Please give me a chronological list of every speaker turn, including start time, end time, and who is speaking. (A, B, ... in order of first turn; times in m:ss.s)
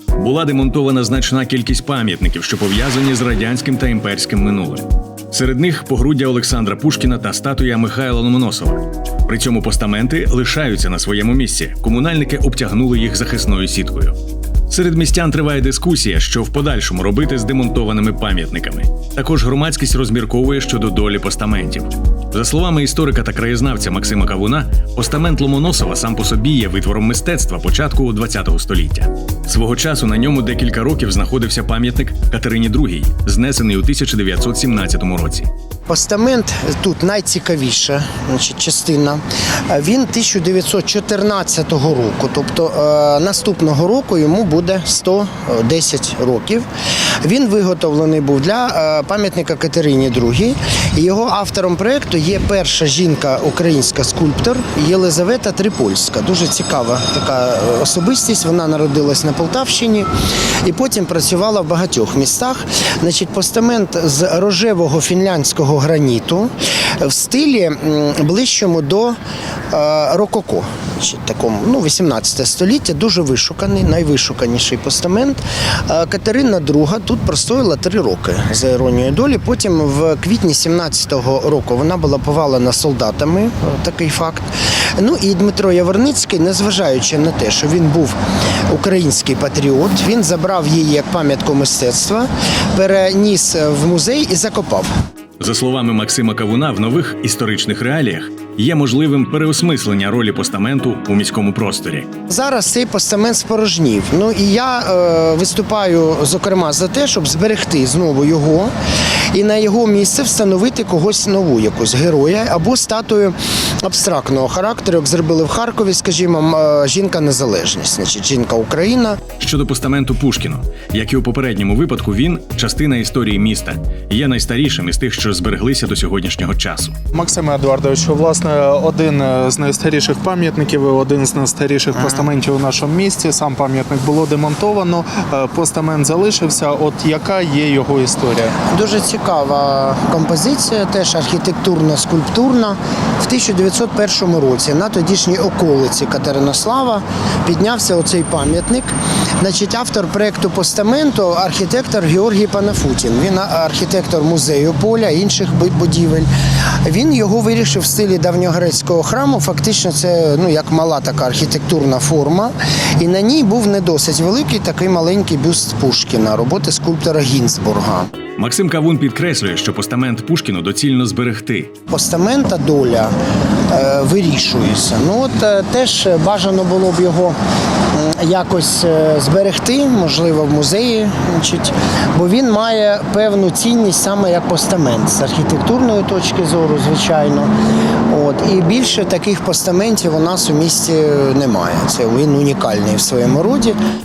0:00.2-0:14.2 A
0:14.7-0:35.5 A
0:35.9-0:46.6 B
0:47.2-1:00.1 B
1:00.6-1:09.2 B
1:09.7-1:28.2 B
1:28.7-1:34.9 B
1:35.4-1:42.1 A
1:42.3-1:48.7 B
1:49.3-1:59.2 B
1:59.4-2:06.9 A
2:07.1-2:18.5 C
2:18.6-2:36.3 B
2:36.8-2:48.1 B
2:48.4-2:51.7 A
2:51.9-2:53.1 B
2:53.7-2:57.4 B
2:57.9-3:07.5 B
3:08.1-3:13.8 B